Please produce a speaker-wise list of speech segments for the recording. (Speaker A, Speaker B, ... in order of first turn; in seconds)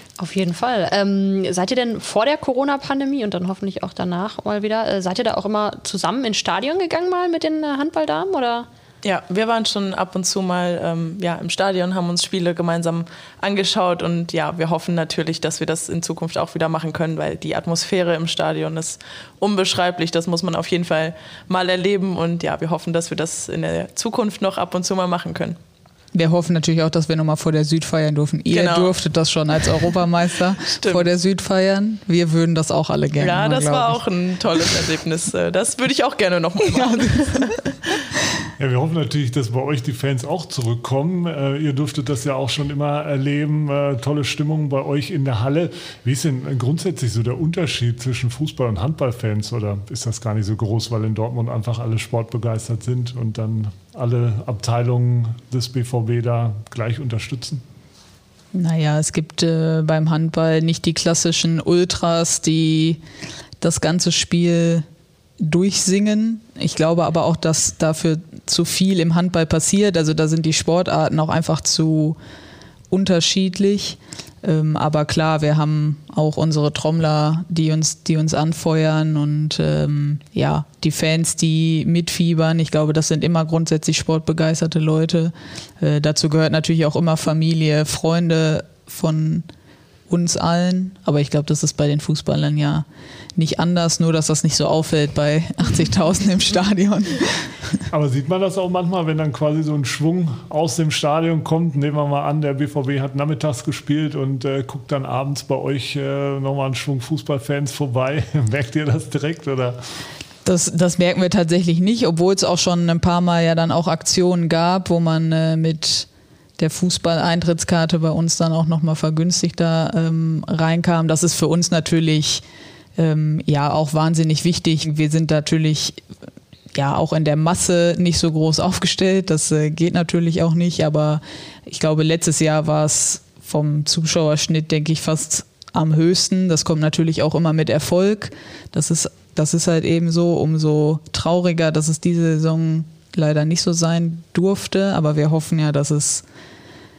Speaker A: 0.2-8.7
Speaker B: 9.0-25.6, 28.5-29.0, 30.8-31.1, 33.2-37.5
Speaker C: 26.1-34.0, 36.6-37.6, 58.5-63.0, 63.6-64.9, 65.4-72.2, 72.9-89.5, 90.1-92.8, 93.4-97.8, 110.5-116.1, 116.6-122.4, 123.0-126.0, 126.8-146.2
Speaker D: 38.6-57.6, 97.9-109.8